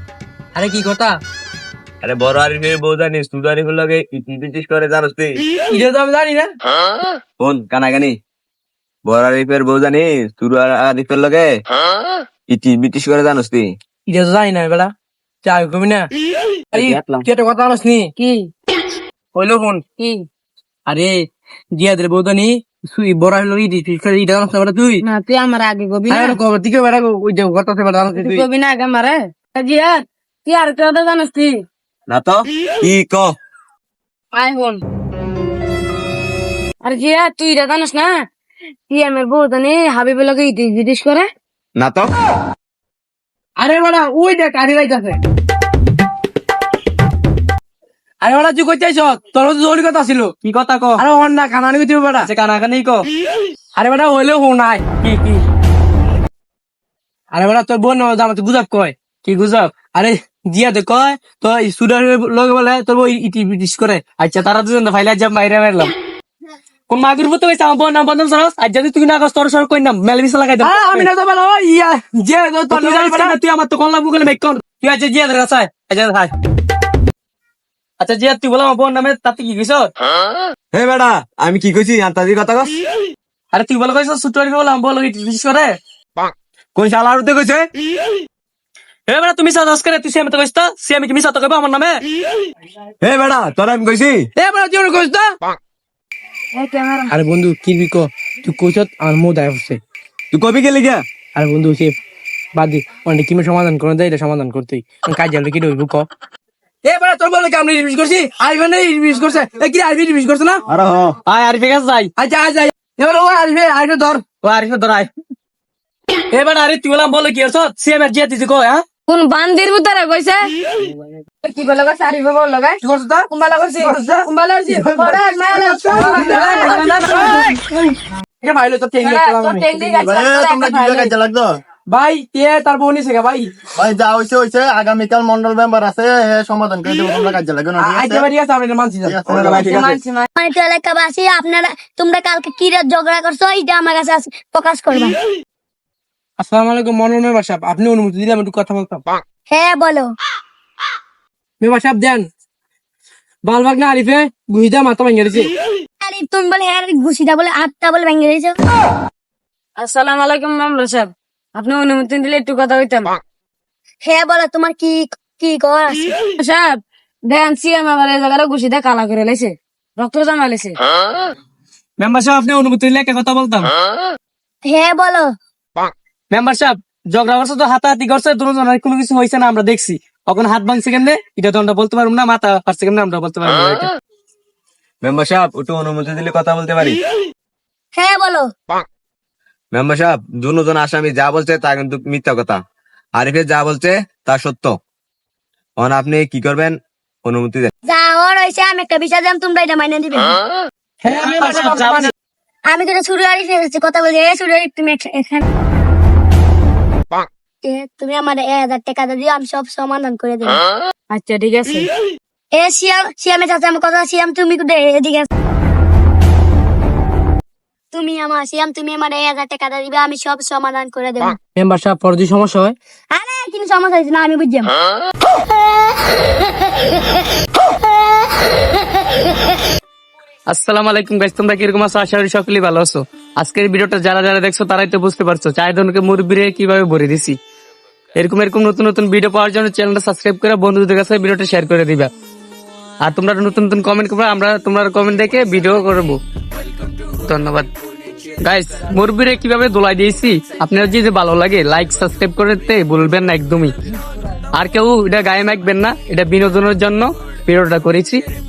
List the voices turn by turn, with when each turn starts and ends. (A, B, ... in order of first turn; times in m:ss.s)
0:00.5-0:01.2 A
0:02.0-0:05.4 B
0:05.7-0:06.5 A
0:07.4-0:08.2 B
0:09.0-0:11.6 B
0:12.5-0:13.7 B
0:14.1-0:14.9 A
0:15.4-0:16.1 A
0:16.7-0:17.2 B
0:16.7-0:18.1 A
0:18.2-0:18.5 C
0:19.3-0:19.8 A
0:20.0-0:20.3 C
0:20.9-0:25.0 A
0:25.0-0:26.4 C
0:26.1-0:28.5 A
0:28.1-0:31.6 C
0:32.1-0:33.4 B
0:34.3-0:34.8 C
0:36.8-0:38.2 C
0:38.9-0:41.3 C
0:41.8-0:42.1 B
0:43.6-0:45.2 A
0:48.2-0:50.3 A
0:50.4-0:51.0 D
0:51.0-0:52.3 A
0:52.2-0:53.1 D
0:53.8-0:54.8 A
0:55.0-0:55.4 D
0:57.3-0:59.0 A
0:59.2-0:59.7 D
0:59.9-1:04.0 A
1:04.1-1:05.9 D
1:06.9-1:11.1 D
1:10.6-1:13.4 A
1:12.7-1:16.3 D
1:18.0-1:19.9 D
1:20.7-1:22.7 B
1:23.5-1:25.8 D
1:26.8-1:27.7 B
1:29.1-1:32.0 D
1:33.0-1:34.3 B
1:34.4-1:35.3 A
1:36.6-1:37.1 C
1:37.1-1:39.8 A
1:40.3-1:41.0 B
1:41.4-1:42.0 A
1:42.6-1:46.1 A
1:46.8-1:50.6 A
1:50.7-1:51.2 B
1:51.3-1:52.1 D
1:52.2-1:54.2 A
1:54.4-1:55.1 D
1:56.3-1:58.8 D
1:59.1-2:00.5 C
2:01.4-2:07.6 C
2:02.8-2:07.6 A
2:06.5-2:07.5 D
2:08.4-2:10.0 A
2:09.0-2:11.1 C
2:10.0-2:11.6 E
2:11.9-2:13.5 A
2:13.8-2:18.3 E
2:17.8-2:19.9 A
2:19.1-2:19.8 E
2:19.4-2:20.0 B
2:19.6-2:20.3 C
2:20.4-2:25.2 F
2:26.4-2:29.0 A
2:29.5-2:30.1 F
2:31.6-2:32.3 A
2:33.4-2:35.5 A
2:36.0-2:38.6 F
2:39.8-2:43.2 C
2:44.0-2:46.0 F
2:46.4-2:50.8 C
2:52.0-2:53.7 D
2:54.6-2:55.3 F
2:56.3-3:03.9 D
3:05.0-3:07.0 B
3:07.9-3:08.5 F
3:09.7-3:12.6 B
3:13.2-3:14.8 B
3:15.8-3:17.7 B
3:17.9-3:20.4 F
3:21.0-3:22.1 A
3:21.1-3:22.1 D
3:22.7-3:25.4 F
3:27.6-3:30.6 F
3:31.1-3:31.9 C
3:32.5-3:35.3 F
3:37.9-3:41.4 F
3:41.6-3:42.8 A
3:43.1-3:44.7 F
3:50.5-3:57.4 D
3:58.2-4:02.1 D
4:03.0-4:06.2 D
4:07.2-4:07.7 D
4:08.4-4:13.7 D
4:14.6-4:18.2 D